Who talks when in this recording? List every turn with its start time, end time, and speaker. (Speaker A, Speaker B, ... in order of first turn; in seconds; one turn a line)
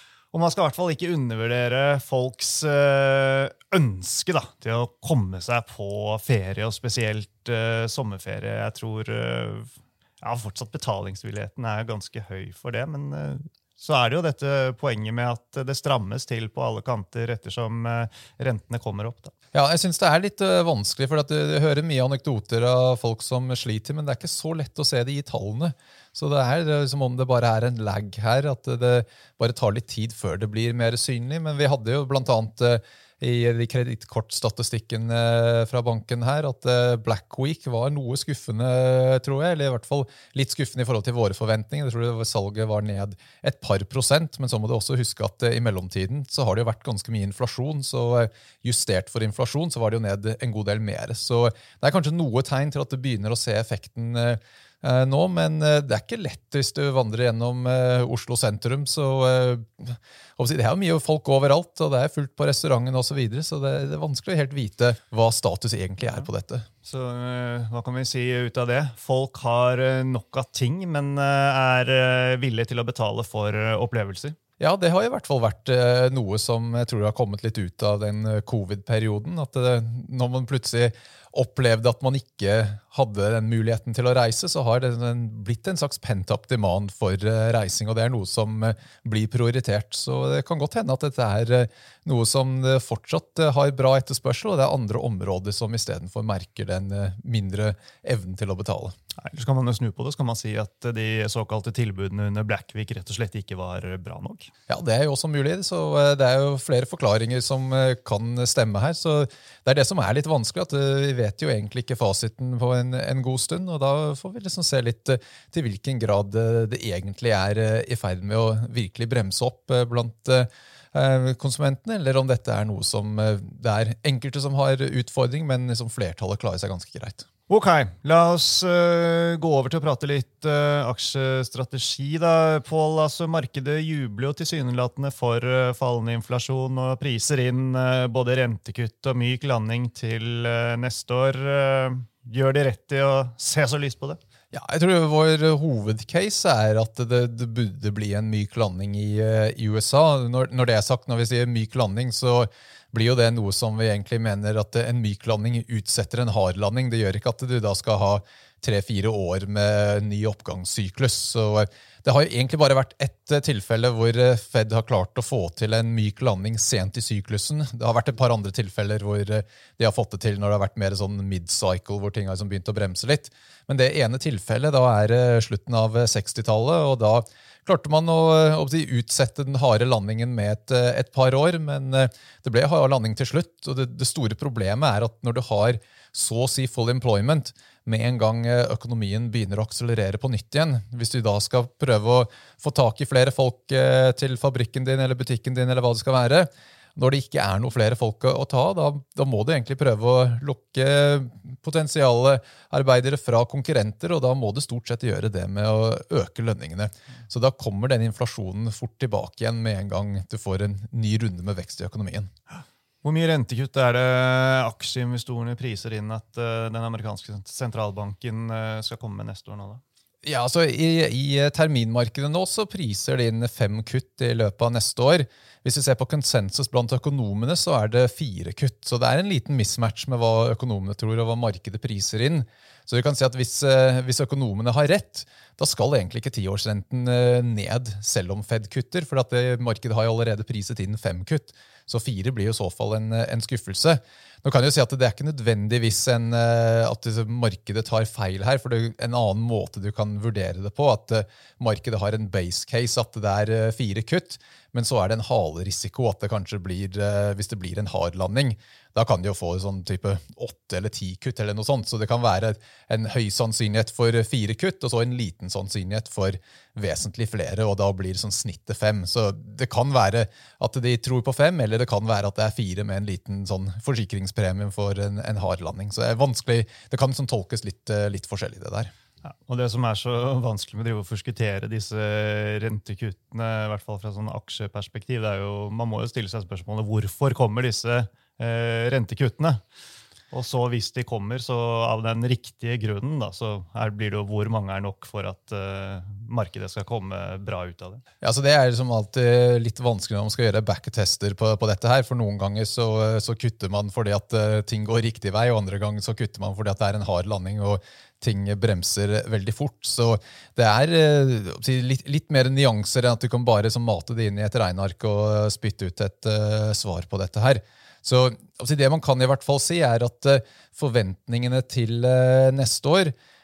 Speaker A: 0.3-19.3
Speaker B: 19.5-66.7
Speaker A: 66.8-74.3
Speaker B: 74.6-98.9
Speaker A: 99.2-104.5
Speaker B: 104.7-127.2
Speaker A: 127.5-144.2
Speaker B: 144.5-212.3
Speaker A: 213.0-219.8
Speaker B: 220.2-278.9
Speaker A: 279.2-289.6
Speaker A: 290.3-298.0
Speaker B: 298.2-323.1